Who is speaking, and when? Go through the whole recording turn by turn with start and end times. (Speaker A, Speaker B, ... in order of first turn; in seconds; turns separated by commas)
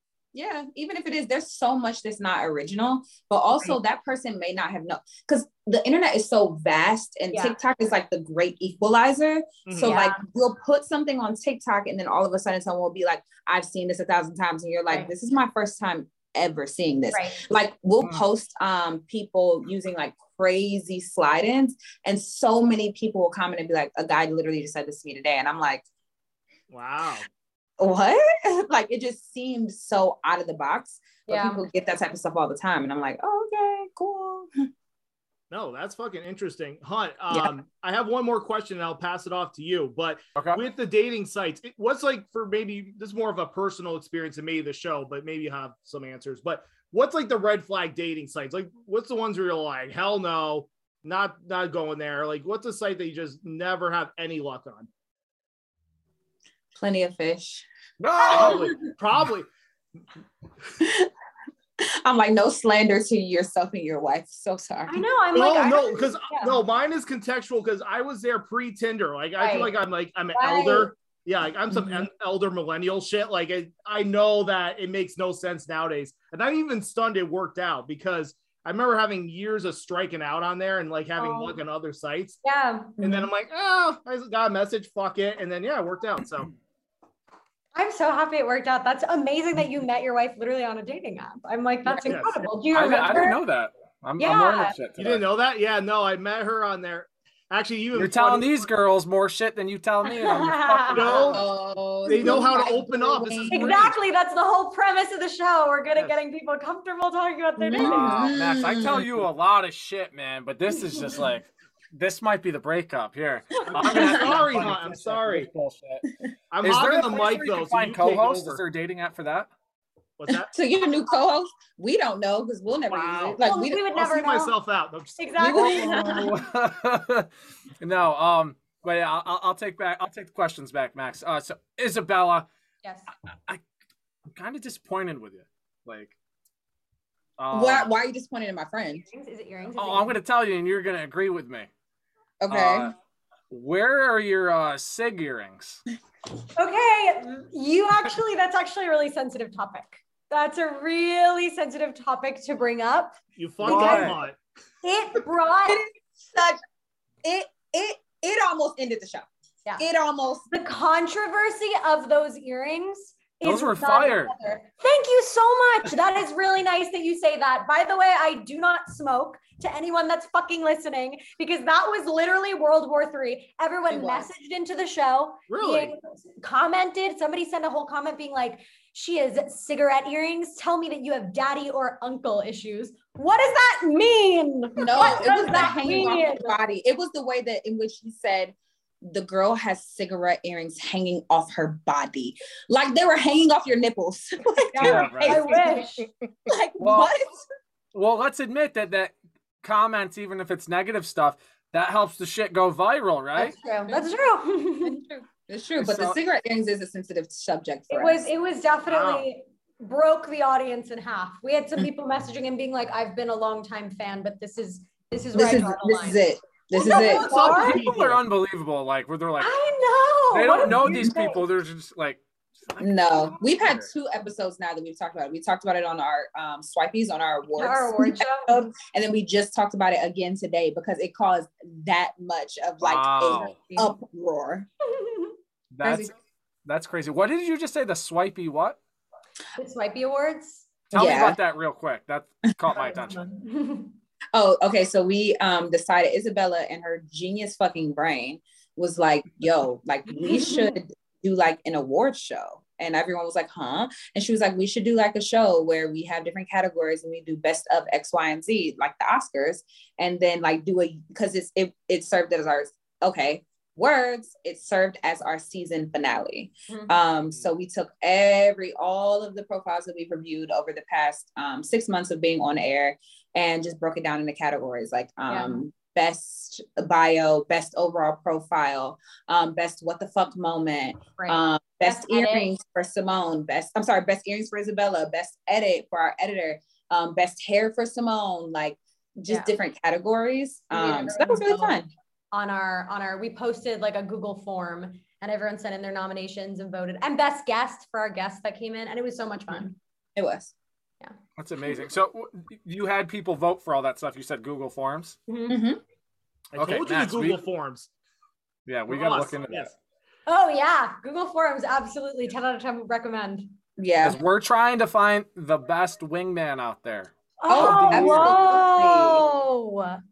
Speaker A: 0.3-25.8, Speaker B: 7.3-7.6, Speaker C: 9.7-10.0, Speaker B: 9.8-10.2, Speaker B: 17.1-17.4, Speaker C: 26.7-27.3, Speaker A: 27.8-34.5, Speaker B: 31.3-31.6, Speaker C: 35.5-54.9, Speaker A: 56.8-57.7, Speaker D: 58.0-58.7, Speaker C: 58.0-59.5, Speaker A: 58.2-58.8, Speaker A: 60.8-61.1, Speaker A: 61.8-65.0, Speaker B: 64.9-66.6, Speaker C: 65.3-82.4, Speaker B: 69.4-69.7, Speaker B: 70.3-70.9, Speaker A: 71.7-72.1, Speaker B: 81.2-81.6, Speaker B: 82.4-83.2, Speaker C: 83.0-86.5, Speaker B: 87.8-93.4, Speaker C: 92.0-92.5, Speaker D: 92.7-95.2, Speaker B: 94.2-94.8, Speaker C: 95.0-98.7, Speaker D: 98.0-101.4, Speaker B: 100.0-101.3, Speaker C: 100.9-101.4, Speaker A: 101.1-103.9, Speaker C: 102.1-104.0, Speaker B: 102.2-102.5, Speaker B: 103.5-108.3, Speaker A: 107.6-109.1, Speaker D: 107.8-116.0, Speaker C: 113.7-115.5, Speaker C: 116.5-118.6, Speaker D: 116.6-119.5, Speaker C: 120.2-120.5, Speaker A: 120.3-123.8, Speaker C: 122.9-123.4, Speaker B: 123.4-124.6, Speaker C: 123.9-125.3, Speaker B: 125.2-126.2, Speaker A: 125.4-126.4, Speaker D: 125.8-127.3, Speaker D: 127.8-132.5, Speaker D: 134.3-136.1, Speaker D: 137.4-137.9, Speaker A: 137.5-139.1, Speaker B: 139.1-140.1, Speaker D: 139.8-141.7, Speaker A: 142.4-142.9, Speaker D: 142.5-142.9, Speaker D: 143.5-145.8, Speaker B: 146.5-154.2, Speaker C: 153.4-154.4, Speaker D: 153.6-154.2, Speaker B: 154.8-155.9, Speaker A: 155.7-156.6, Speaker A: 157.2-159.3, Speaker A: 159.8-160.5, Speaker B: 160.5-186.6, Speaker D: 163.4-164.3, Speaker A: 173.9-174.3, Speaker C: 175.5-175.9, Speaker A: 184.8-195.9, Speaker B: 194.8-196.1, Speaker D: 194.8-195.5, Speaker C: 195.5-195.8, Speaker A: 196.5-197.4, Speaker D: 196.8-197.1, Speaker D: 197.9-203.6, Speaker A: 203.4-204.1, Speaker B: 203.4-205.0, Speaker A: 204.8-208.3, Speaker D: 205.8-206.2, Speaker B: 207.9-217.8, Speaker C: 208.9-209.3, Speaker A: 215.3-217.4, Speaker C: 216.9-218.2, Speaker D: 217.4-219.6, Speaker B: 219.4-221.4, Speaker D: 220.3-223.9, Speaker A: 220.7-221.2, Speaker A: 222.8-234.7, Speaker B: 227.6-228.6, Speaker D: 232.8-233.6, Speaker B: 233.3-233.9, Speaker B: 234.8-235.4, Speaker D: 235.7-236.1, Speaker A: 235.8-236.1, Speaker D: 236.7-238.8, Speaker B: 239.6-240.7, Speaker D: 240.9-243.2, Speaker A: 240.9-241.4, Speaker B: 242.7-243.9, Speaker A: 244.3-291.9, Speaker B: 250.1-250.8, Speaker B: 266.7-266.9, Speaker B: 275.3-275.6, Speaker B: 281.2-282.5, Speaker B: 289.3-289.5, Speaker B: 290.7-291.8, Speaker B: 292.3-299.8, Speaker A: 300.2-300.5, Speaker D: 301.4-305.2, Speaker B: 305.3-305.6, Speaker A: 305.5-305.8, Speaker C: 306.5-307.9, Speaker D: 306.6-307.4, Speaker D: 308.7-309.7, Speaker C: 308.9-309.7, Speaker B: 310.3-313.6, Speaker A: 313.8-314.2, Speaker D: 314.0-318.4, Speaker B: 317.4-320.0, Speaker A: 317.5-319.2